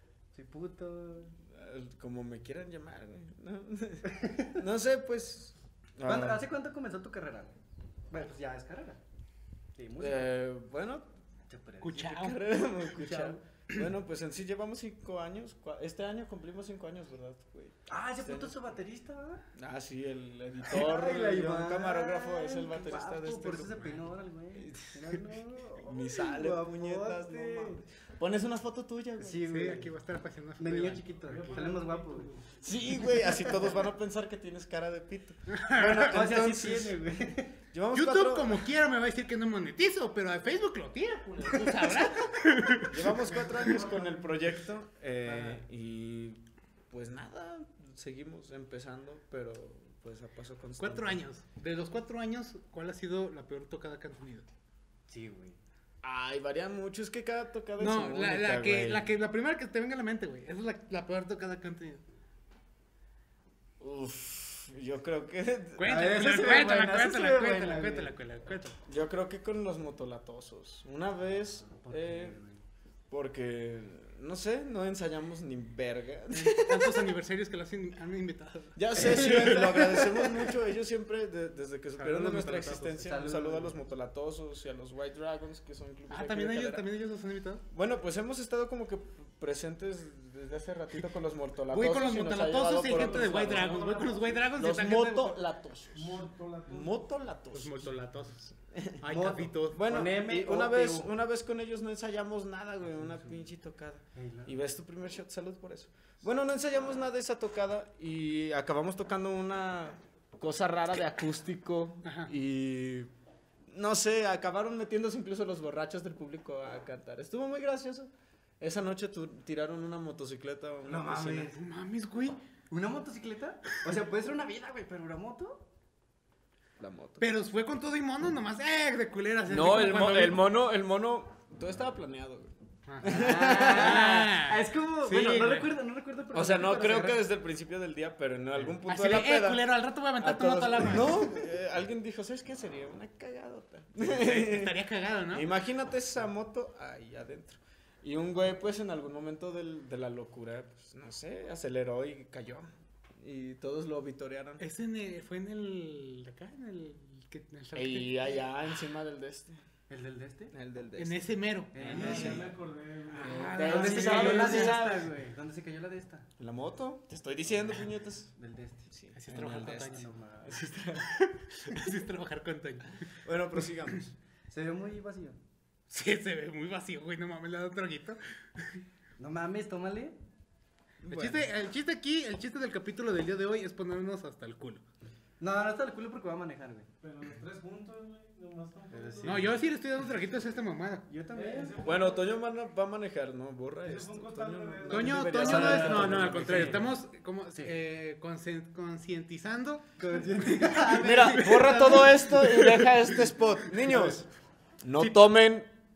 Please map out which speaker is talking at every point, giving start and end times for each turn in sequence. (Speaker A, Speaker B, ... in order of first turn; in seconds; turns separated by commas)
Speaker A: 0.3-1.3, Speaker B: 1.5-6.5, Speaker A: 4.1-4.6, Speaker A: 6.0-7.5, Speaker A: 8.1-9.0, Speaker A: 9.8-10.4, Speaker B: 10.0-11.1, Speaker A: 11.5-12.1, Speaker C: 11.8-12.4, Speaker B: 11.9-18.6, Speaker A: 12.8-13.4, Speaker A: 17.9-19.4, Speaker B: 19.5-24.0, Speaker A: 20.7-27.8, Speaker B: 24.6-25.2, Speaker B: 25.8-29.4, Speaker A: 29.2-29.9, Speaker C: 29.4-31.1, Speaker A: 30.6-32.3, Speaker D: 31.3-32.6, Speaker B: 32.6-37.0, Speaker A: 33.2-33.8, Speaker C: 35.5-36.2, Speaker A: 35.8-37.5, Speaker B: 37.7-38.6, Speaker C: 37.9-43.1, Speaker B: 42.9-51.2, Speaker D: 43.4-44.0, Speaker A: 45.3-45.6, Speaker C: 50.8-54.5, Speaker A: 55.1-55.6, Speaker B: 56.0-59.1, Speaker C: 57.8-62.0, Speaker B: 63.8-66.3, Speaker C: 65.8-68.8, Speaker A: 65.8-68.1, Speaker B: 68.9-72.4, Speaker A: 71.7-72.6, Speaker B: 73.1-77.1, Speaker C: 76.3-78.8, Speaker B: 78.8-86.8, Speaker A: 79.0-80.5, Speaker A: 82.0-83.8, Speaker C: 86.1-87.6, Speaker B: 87.7-93.9, Speaker C: 91.7-95.4, Speaker D: 92.9-94.5, Speaker B: 94.5-97.9, Speaker D: 95.9-97.0, Speaker C: 97.5-99.8, Speaker B: 98.7-99.0, Speaker A: 99.0-101.1, Speaker B: 99.7-113.1, Speaker A: 103.0-103.5, Speaker A: 104.2-104.5, Speaker C: 112.0-112.3, Speaker B: 113.7-121.5, Speaker A: 120.8-121.6, Speaker C: 121.5-122.4, Speaker A: 122.7-125.7, Speaker B: 126.8-127.3, Speaker C: 127.2-130.4, Speaker B: 129.5-134.4, Speaker C: 132.9-135.7, Speaker A: 133.0-137.2, Speaker B: 136.3-144.8, Speaker C: 138.6-141.4, Speaker C: 144.0-145.5, Speaker B: 145.3-154.6, Speaker C: 154.6-158.2, Speaker B: 157.8-159.6, Speaker A: 159.9-160.5, Speaker B: 160.5-162.5, Speaker C: 161.0-162.4, Speaker A: 161.7-162.5, Speaker D: 161.8-163.5, Speaker C: 163.1-164.9, Speaker B: 163.2-165.1, Speaker A: 163.5-166.3, Speaker B: 166.4-168.3, Speaker A: 168.4-168.9, Speaker B: 168.9-171.1, Speaker C: 169.2-170.1, Speaker A: 169.8-170.9, Speaker C: 171.0-173.0, Speaker B: 173.2-174.2, Speaker A: 174.5-175.4, Speaker C: 175.9-178.8, Speaker A: 179.2-180.2, Speaker B: 181.0-181.5, Speaker C: 181.1-184.8, Speaker A: 185.4-186.9, Speaker D: 187.0-189.6, Speaker A: 188.9-189.6, Speaker C: 189.2-191.1, Speaker A: 191.1-191.8, Speaker D: 191.3-192.3, Speaker B: 191.8-196.8, Speaker D: 193.8-195.2, Speaker C: 194.9-199.9, Speaker A: 194.9-196.9, Speaker A: 200.0-202.6, Speaker C: 200.4-201.9, Speaker B: 200.9-204.3, Speaker C: 202.4-203.0, Speaker A: 203.9-204.2, Speaker B: 204.8-205.7